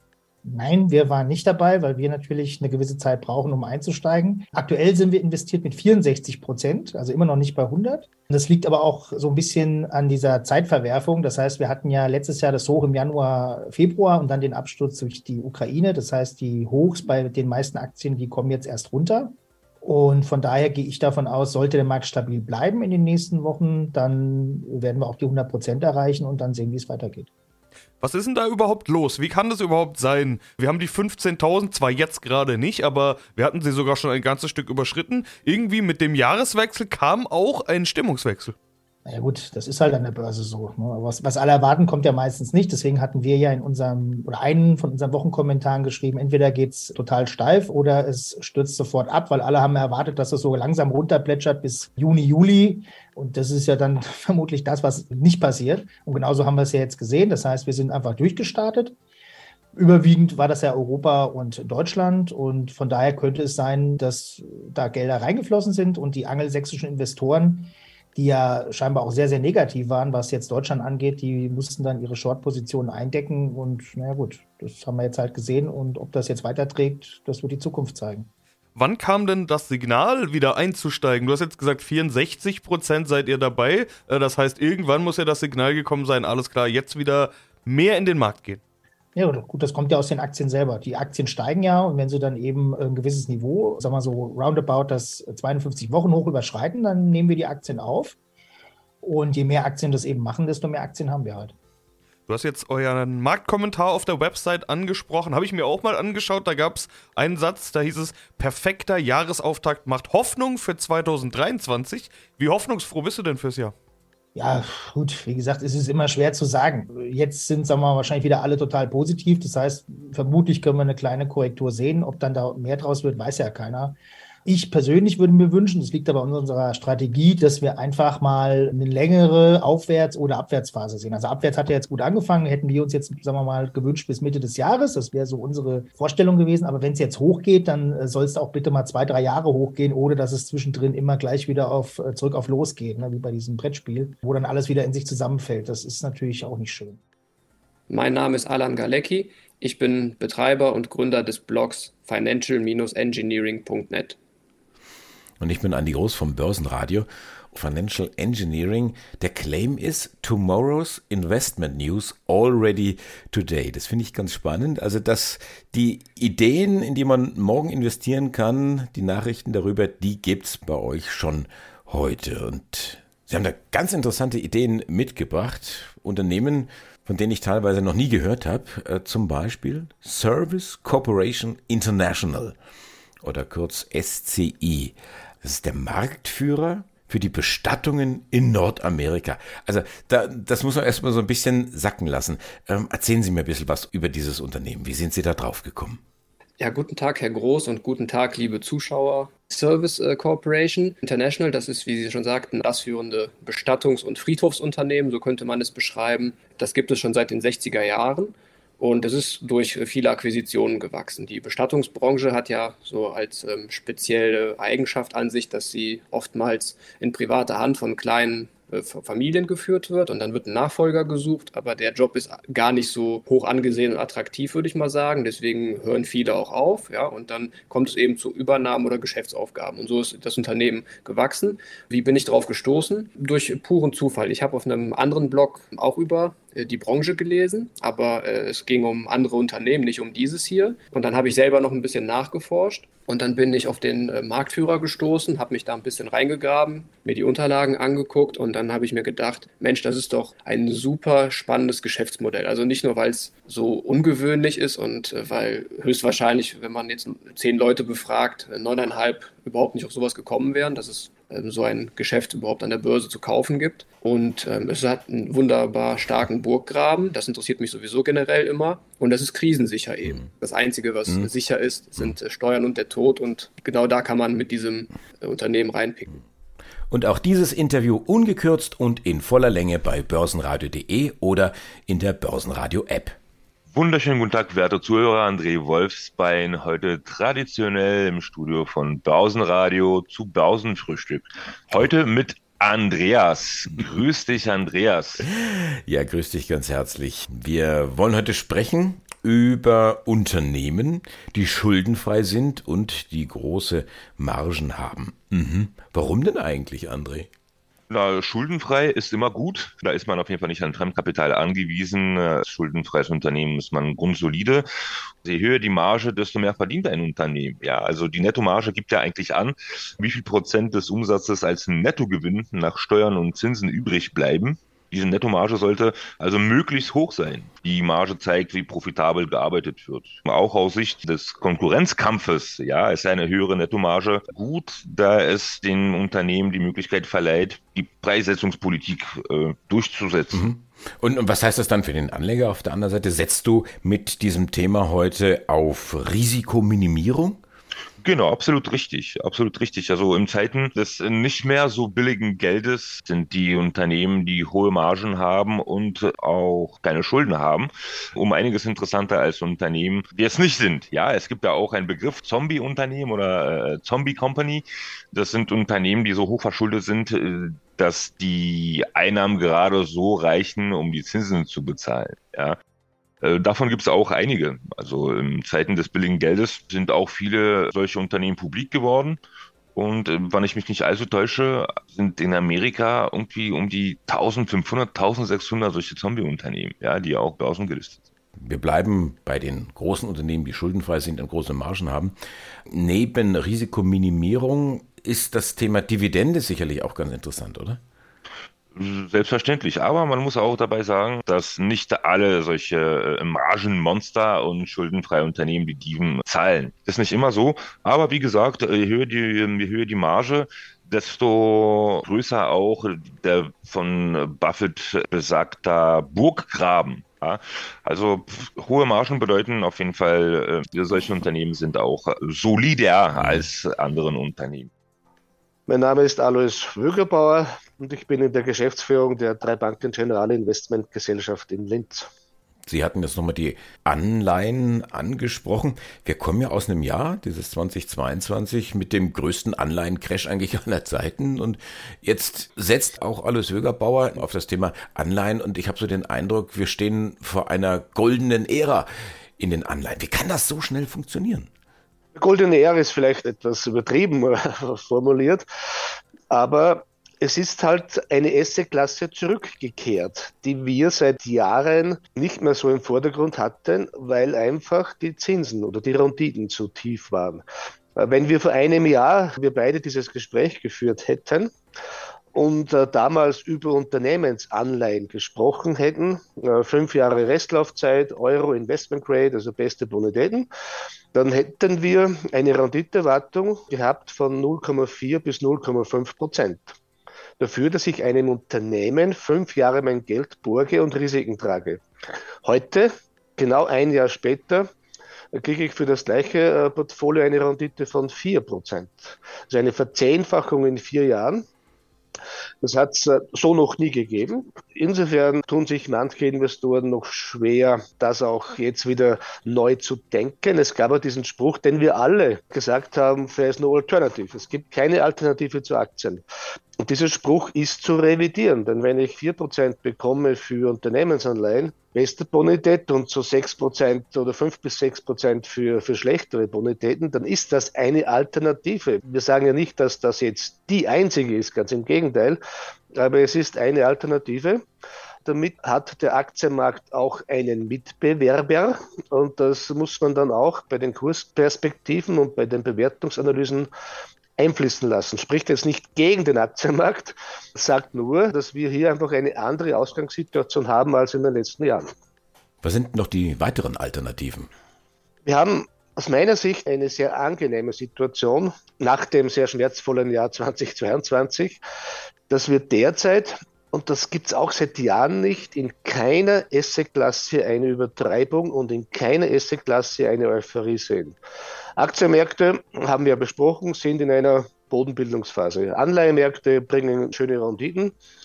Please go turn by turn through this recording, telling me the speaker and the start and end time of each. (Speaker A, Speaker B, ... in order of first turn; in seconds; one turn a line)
Speaker A: 0.4-27.3
Speaker B: 28.0-38.5
Speaker A: 39.0-58.9
Speaker A: 59.7-78.3
Speaker B: 78.8-88.6
Speaker A: 89.1-98.2
Speaker A: 99.0-101.5
Speaker B: 102.3-113.7
Speaker A: 114.3-147.0
Speaker C: 147.9-154.2
Speaker D: 155.4-182.5
Speaker D: 183.2-196.0
Speaker C: 196.6-276.2
Speaker D: 276.9-283.2
Speaker E: 283.7-295.2
Speaker D: 295.4-307.3
Speaker E: 307.9-314.6
Speaker E: 315.2-340.4
Speaker D: 340.3-347.4
Speaker E: 348.0-372.6
Speaker E: 373.2-379.2
Speaker E: 379.7-388.0
Speaker D: 388.4-392.1
Speaker D: 392.7-397.8
Speaker E: 398.7-424.7
Speaker D: 423.2-423.4
Speaker F: 425.7-432.1
Speaker D: 432.6-448.9
Speaker D: 449.4-451.5
Speaker F: 452.1-455.4
Speaker F: 456.3-467.4
Speaker F: 467.9-471.5
Speaker F: 472.3-480.5
Speaker F: 481.1-486.7
Speaker F: 487.4-491.8
Speaker F: 492.4-494.6
Speaker F: 495.3-501.4
Speaker F: 502.6-516.2
Speaker F: 516.8-532.4
Speaker F: 532.9-534.6
Speaker F: 535.2-543.7
Speaker F: 544.4-551.9
Speaker D: 552.6-554.5
Speaker F: 555.2-561.6
Speaker F: 562.3-571.2
Speaker F: 571.8-577.9